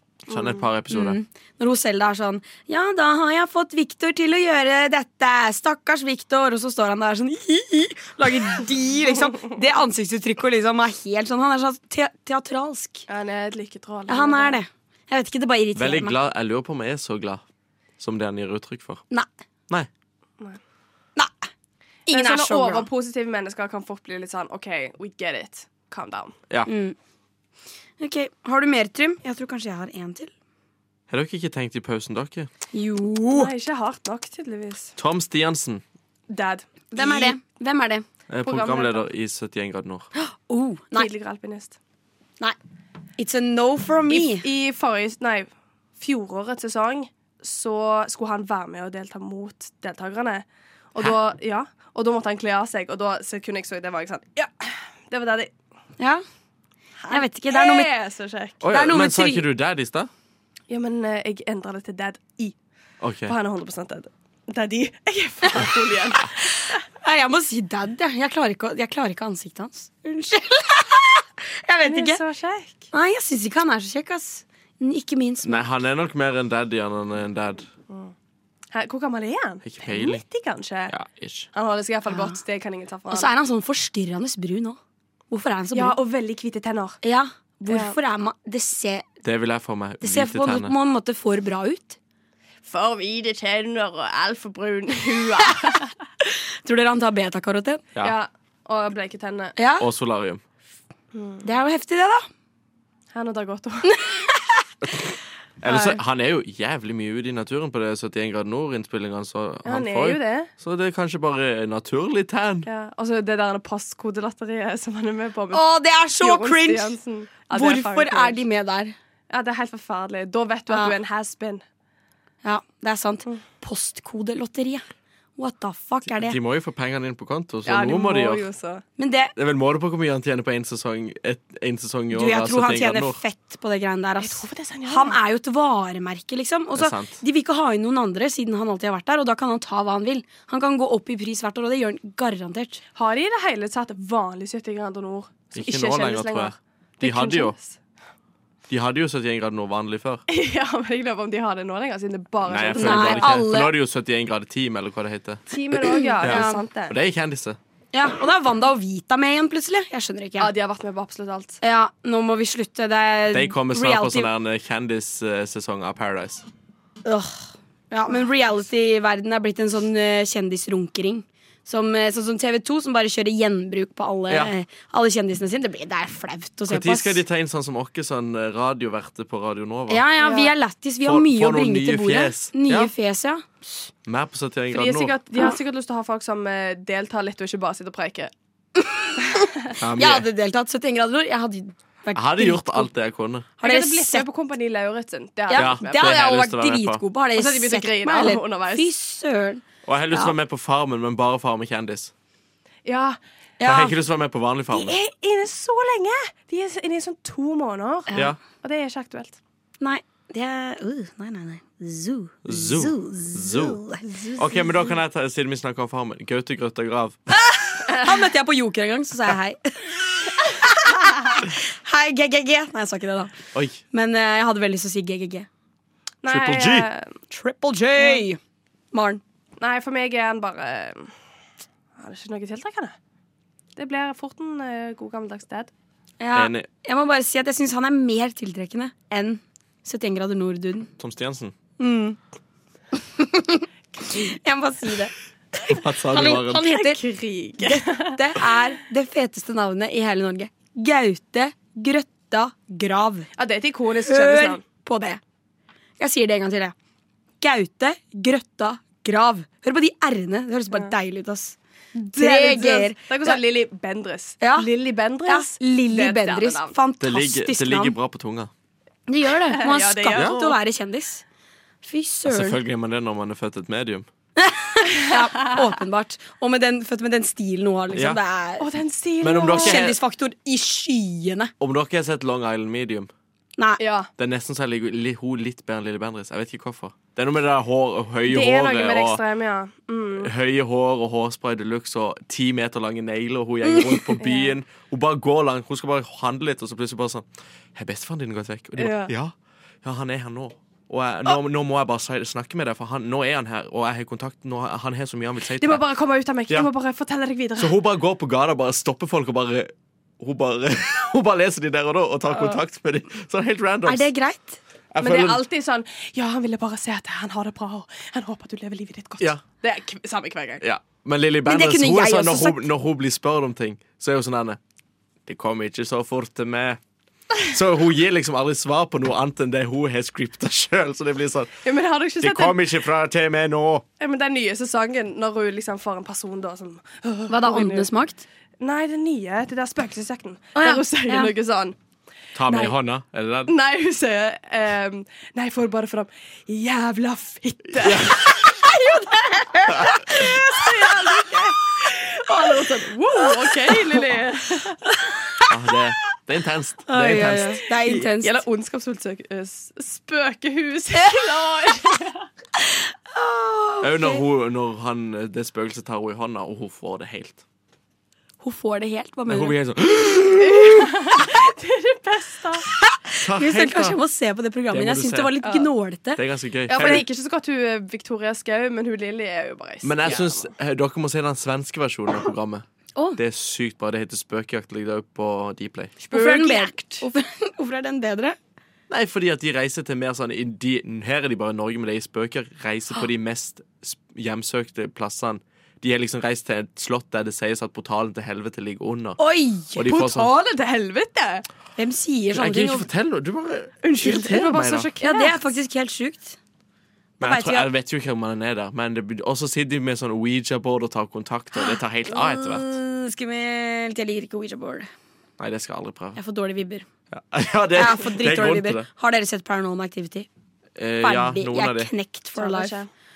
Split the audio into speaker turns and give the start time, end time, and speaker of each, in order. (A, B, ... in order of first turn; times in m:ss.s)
0:00.2-0:01.2 A
0:00.3-0:00.6 B
0:00.9-0:13.1 C
0:13.1-0:14.6 B
0:14.1-0:16.2 C
0:15.7-0:17.4 A
0:18.0-0:19.0 A
0:21.2-0:21.5 C
0:22.1-0:22.9 C
0:22.1-0:26.4 B
0:26.7-0:27.0 C
0:28.0-0:30.3 C
0:31.1-0:32.5 A
0:32.7-0:33.5 C
0:33.3-0:34.9 B
0:35.0-0:35.8 A
0:36.3-0:37.4 B
0:36.9-0:38.0 C
0:38.3-0:40.1 A
0:38.4-0:39.1 B
0:40.2-0:41.1 C
0:40.9-0:41.8 B
0:43.2-0:44.4 C
0:44.1-0:55.5 B
0:56.0-0:56.2 C
0:57.0-0:58.6 B
0:57.1-0:57.9 C
0:58.6-1:00.1 A
0:58.7-0:59.5 C
1:00.7-1:02.5 B
1:03.0-1:03.3 A
1:03.2-1:06.8 B
1:07.0-1:12.2 C
1:11.8-1:12.9 B
1:12.9-1:15.7 C
1:15.4-1:17.7 A
1:18.7-1:20.9 B
1:19.6-1:20.2 A
1:20.9-1:21.5 A
1:21.5-1:23.3 B
1:22.1-1:22.4 C
1:23.1-1:24.8 C
1:25.3-1:26.0 C
1:25.7-1:27.0 B
1:27.0-1:29.0 C
1:27.7-1:28.0 B
1:29.2-1:30.7 A
1:30.0-1:32.0 C
1:32.6-1:35.9 B
1:36.2-1:37.8 C
1:38.0-1:39.6 B
1:39.6-1:39.9 C
1:39.8-1:40.4 A
1:41.1-1:41.4 B
1:41.4-1:42.3 C
1:43.1-1:44.0 B
1:43.9-1:44.6 C
1:45.6-1:52.7 A
1:45.7-1:45.9 B
1:49.6-1:50.5 B
1:52.6-1:55.6 B
1:55.5-1:57.0 C
1:56.2-1:58.4 B
1:57.5-1:58.9 C
1:59.3-2:01.6 B
2:00.7-2:01.0 C
2:02.4-2:04.8 C
2:05.4-2:06.4 C
2:06.1-2:08.4 A
2:07.6-2:08.8 B
2:09.0-2:09.3 C
2:09.4-2:13.2 A
2:12.1-2:22.8 C
2:14.2-2:15.2 B
2:16.7-2:17.2 A
2:22.9-2:27.8 B
2:25.5-2:27.6 A
2:28.7-2:30.2 A
2:30.3-2:33.4 B
2:32.5-2:35.4 A
2:32.7-2:33.7 C
2:35.5-2:37.0 B
2:35.8-2:36.6 C
2:36.2-2:37.6 A
2:37.9-2:40.5 C
2:40.4-2:41.6 B
2:41.6-2:44.3 C
2:43.3-2:46.4 A
2:47.0-2:57.2 C
2:56.7-3:00.0 A
2:59.9-3:03.6 C
3:00.2-3:00.5 B
3:01.0-3:02.9 A
3:04.0-3:05.1 A
3:04.7-3:08.3 B
3:08.8-3:12.9 C
3:09.8-3:10.3 A
3:12.1-3:13.5 A
3:13.6-3:14.2 C
3:13.6-3:16.2 B
3:15.5-3:20.3 C
3:15.5-3:17.0 A
3:17.4-3:18.9 B
3:19.8-3:22.1 A
3:22.8-3:23.2 B
3:23.6-3:23.9 C
3:23.6-3:25.0 A
3:24.7-3:29.4 B
3:29.8-3:34.0 C
3:32.4-3:33.8 A
3:34.0-3:34.9 B
3:34.4-3:37.2 A
3:37.5-3:43.3 C
3:37.9-3:38.2 B
3:43.5-3:43.8 A
3:43.9-3:45.5 C
3:46.2-3:47.1 B
3:46.3-3:46.9 A
3:47.3-3:48.4 C
3:48.0-3:48.2 B
3:48.9-3:49.2 C
3:49.6-3:51.1 B
3:52.0-3:52.9 B
3:53.8-3:55.7 B
3:56.2-4:00.9 C
3:56.3-3:56.7 A
4:01.0-4:01.5 A
4:01.8-4:02.2 C
4:03.2-4:05.1 C
4:05.6-4:07.0 C
4:05.7-4:06.7 A
4:06.6-4:08.2 B
4:07.6-4:13.3 C
4:13.4-4:14.6 B
4:14.0-4:15.2 C
4:16.0-4:16.7 C
4:17.4-4:23.4 C
4:22.0-4:26.8 B
4:24.4-4:24.7 C
4:25.3-4:28.0 C
4:27.0-4:28.5 A
4:29.1-4:31.2 C
4:29.5-4:30.4 B
4:30.1-4:30.5 A
4:31.8-4:32.6 C
4:32.3-4:34.1 A
4:34.4-4:38.7 C
4:35.1-4:35.5 B
4:37.9-4:38.2 A
4:38.6-4:39.9 B
4:39.2-4:40.0 A
4:39.5-4:41.5 C
4:41.6-4:43.1 A
4:43.8-4:44.1 B
4:44.2-4:49.2 A
4:48.3-4:50.3 B
4:50.2-5:05.8 A
4:54.2-4:54.6 B
4:58.8-4:59.1 B
5:05.6-5:07.8 B
5:07.6-5:14.1 A
5:13.8-5:14.6 C
5:14.9-5:15.4 A
5:15.0-5:20.6 B
5:20.6-5:24.6 A
5:21.4-5:22.6 C
5:25.2-5:26.8 A
5:27.4-5:31.5 A
5:31.6-5:32.6 B
5:32.2-5:33.8 A
5:34.0-5:37.9 B
5:37.3-5:38.2 C
5:38.6-5:41.8 B
5:40.6-5:41.3 C
5:42.3-5:43.5 A
5:42.5-5:42.7 B
5:43.5-5:54.8 B
5:47.8-5:48.2 A
5:55.0-5:55.4 C
5:55.5-5:57.6 A
5:56.9-5:58.4 C
5:57.2-6:02.2 B
6:00.9-6:01.3 C
6:02.6-6:04.2 C
6:03.8-6:07.4 A
6:08.4-6:09.5 C
6:09.3-6:10.6 A
6:10.3-6:12.7 B
6:12.8-6:16.2 C
6:13.2-6:14.0 A
6:14.7-6:15.3 A
6:15.4-6:15.7 B
6:16.1-6:17.0 A
6:16.7-6:20.5 B
6:19.8-6:22.6 A
6:23.2-6:26.0 A
6:26.0-6:27.0 B
6:26.1-6:28.4 C
6:28.9-6:39.2 A
6:39.2-6:40.0 C
6:39.7-6:40.3 A
6:39.9-6:41.4 B
6:41.8-6:42.9 C
6:42.3-6:44.9 A
6:43.8-6:45.4 B
6:45.0-6:46.4 C
6:47.2-6:52.7 A
6:47.2-6:47.7 C
6:51.6-6:54.9 C
6:55.4-6:56.2 A
6:56.1-6:56.8 C
6:57.1-6:58.9 A
6:57.7-7:00.3 C
7:00.8-7:01.9 A
7:01.0-7:02.8 C
7:02.4-7:02.9 B